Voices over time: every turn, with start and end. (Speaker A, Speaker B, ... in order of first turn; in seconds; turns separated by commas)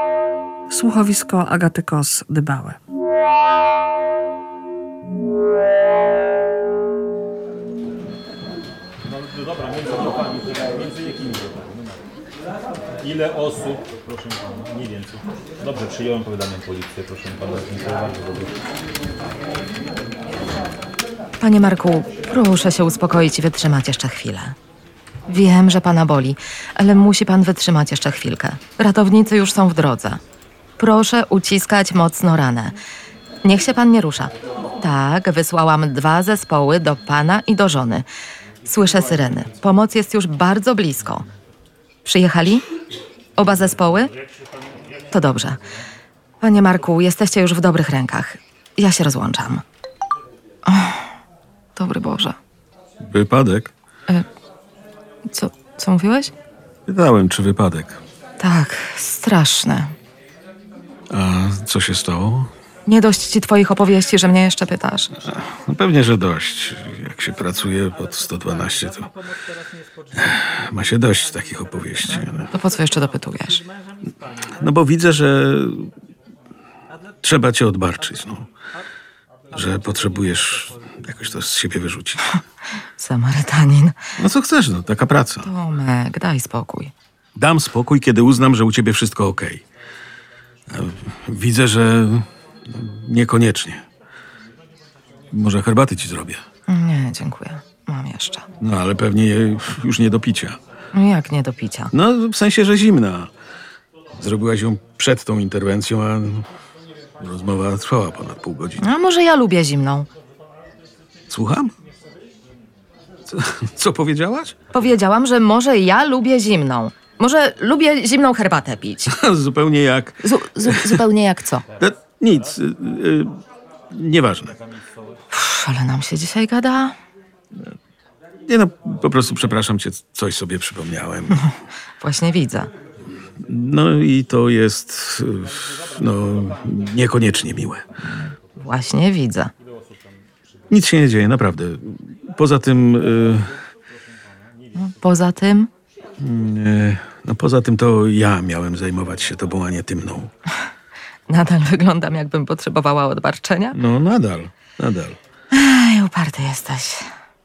Speaker A: 0.7-2.8, Speaker B: 9.1-12.0, Speaker B: 13.0-18.6, Speaker C: 21.4-24.6, Speaker C: 25.3-30.2, Speaker C: 30.8-32.8, Speaker C: 33.4-38.1, Speaker C: 38.6-41.3, Speaker C: 42.0-42.7, Speaker C: 43.4-44.1, Speaker C: 45.1-45.6, Speaker C: 46.4-49.6, Speaker C: 50.6-51.1, Speaker C: 51.8-52.4, Speaker D: 53.0-53.7, Speaker C: 55.3-56.3, Speaker D: 56.9-58.0, Speaker C: 58.4-60.0, Speaker D: 61.1-62.5, Speaker C: 62.9-65.1, Speaker D: 65.2-69.1, Speaker D: 70.1-72.5, Speaker C: 72.5-73.7, Speaker D: 74.5-75.9, Speaker D: 77.2-78.5, Speaker D: 79.5-82.2, Speaker C: 83.0-84.0, Speaker D: 84.2-85.5, Speaker C: 85.4-86.9, Speaker D: 87.4-89.6, Speaker D: 90.7-93.9, Speaker D: 95.3-96.4, Speaker C: 96.7-98.5, Speaker D: 98.6-100.6, Speaker C: 100.9-101.9, Speaker D: 101.9-103.3, Speaker D: 104.1-106.5, Speaker D: 107.2-108.9, Speaker C: 108.8-110.1, Speaker D: 111.3-111.7, Speaker D: 113.3-114.6, Speaker C: 114.7-119.2, Speaker D: 119.1-121.0, Speaker C: 120.2-121.7, Speaker D: 121.8-123.4, Speaker D: 123.9-124.6, Speaker C: 125.3-127.0, Speaker D: 128.4-131.5, Speaker C: 131.3-132.7, Speaker D: 133.4-137.9, Speaker B: 136.2-136.5, Speaker C: 138.3-139.5, Speaker B: 139.8-140.0, Speaker D: 140.7-143.5, Speaker B: 144.2-144.8, Speaker C: 144.8-145.7, Speaker D: 146.2-150.3, Speaker C: 151.3-153.8, Speaker D: 153.7-155.2, Speaker C: 155.5-157.1